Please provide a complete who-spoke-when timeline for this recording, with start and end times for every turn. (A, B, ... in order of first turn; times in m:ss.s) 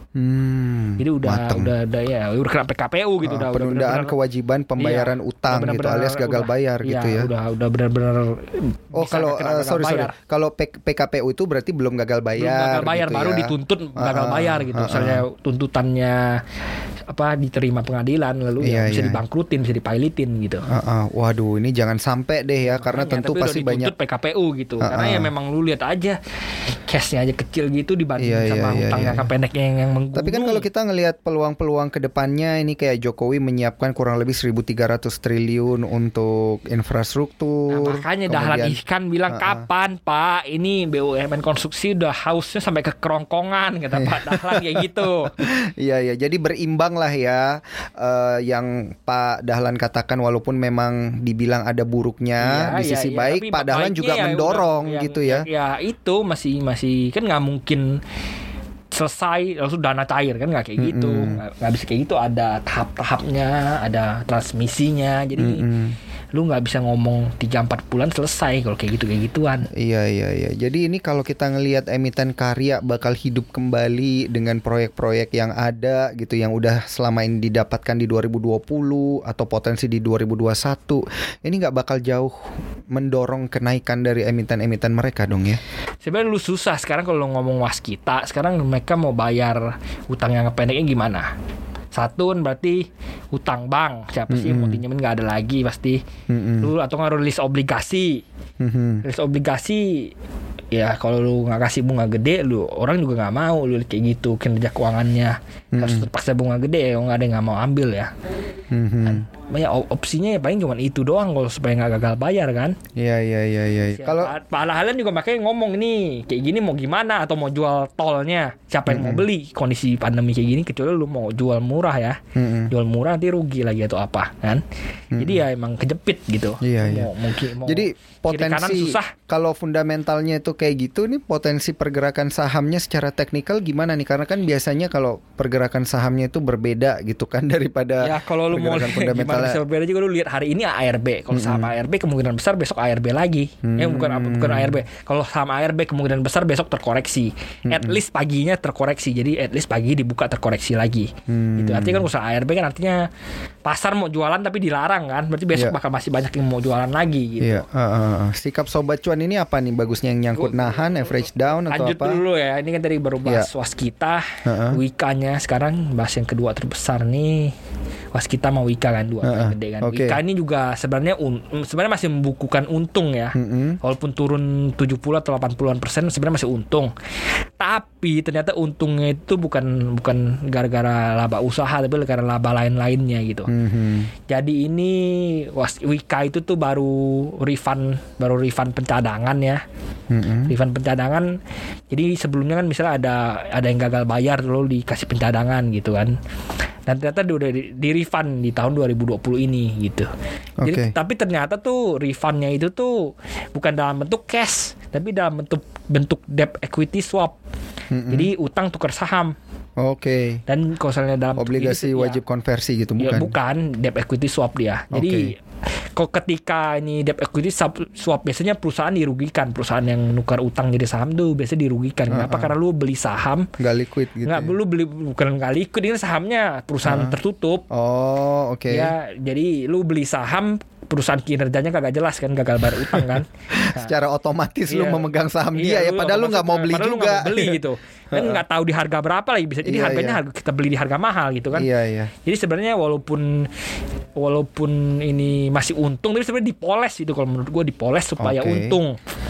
0:00.2-0:01.7 A
0:01.0-0:04.1 B
0:03.2-0:07.3 A
0:04.8-0:10.1 B
0:08.9-0:15.2 A
0:12.4-0:16.4 B
0:17.1-0:20.6 B
0:18.6-0:19.2 A
0:20.7-0:23.9 A
0:22.7-0:26.2 B
0:24.8-0:25.3 A
0:26.7-0:30.6 B
0:28.2-0:29.3 A
0:30.1-0:39.6 A
0:37.7-0:45.3 B
0:44.0-0:55.4 A
0:52.4-0:58.0 B
0:58.9-1:05.6 B
1:00.8-1:01.4 A
1:05.4-1:06.0 A
1:06.3-1:09.7 B
1:09.7-1:22.3 A
1:22.9-1:25.6 A
1:26.0-1:31.3 B
1:31.9-1:36.0 B
1:34.3-1:34.8 A
1:36.3-1:36.7 A
1:36.6-1:38.2 B
1:38.6-1:39.0 A
1:39.0-1:40.1 B
1:40.7-1:48.1 B
1:45.7-1:46.1 A
1:48.7-1:49.2 A
1:49.1-1:52.8 B
1:53.0-1:54.3 A
1:53.9-2:02.2 B
1:58.9-1:59.2 A
2:02.3-2:02.7 A
2:02.7-2:04.6 B
2:05.1-2:05.4 A
2:05.2-2:09.1 B
2:06.6-2:07.1 A
2:07.6-2:19.6 A
2:18.0-2:33.0 B
2:21.3-2:21.7 A
2:23.6-2:24.8 A
2:27.7-2:28.0 A
2:31.3-2:32.1 A
2:33.6-2:37.6 B
2:37.4-2:42.2 A
2:40.4-2:40.8 B
2:41.7-2:47.5 B
2:44.4-2:44.8 A
2:48.1-2:56.9 B
2:49.2-2:50.2 A
2:53.3-2:53.8 A
2:57.6-3:03.5 B
3:03.5-3:04.1 A
3:04.3-3:09.6 B
3:10.1-3:10.5 A
3:10.5-3:11.3 B
3:11.9-3:16.2 B
3:16.8-3:20.1 B
3:20.6-3:20.9 A
3:20.6-3:27.4 B
3:27.9-3:28.3 A
3:28.1-3:29.3 B
3:29.8-3:30.4 A
3:30.5-3:32.2 B
3:31.4-3:33.3 A
3:33.0-3:35.4 B
3:34.9-3:35.3 A
3:36.0-3:43.5 B
3:42.1-3:42.5 A
3:43.6-3:44.6 A
3:44.2-3:47.6 B
3:46.8-3:47.2 A
3:47.7-3:48.9 A
3:48.7-3:53.9 B
3:52.7-3:58.4 A
3:54.7-4:01.7 B
3:59.6-4:00.2 A
4:01.5-4:02.1 A
4:02.2-4:03.5 B
4:04.2-4:09.0 B
4:08.2-4:08.8 A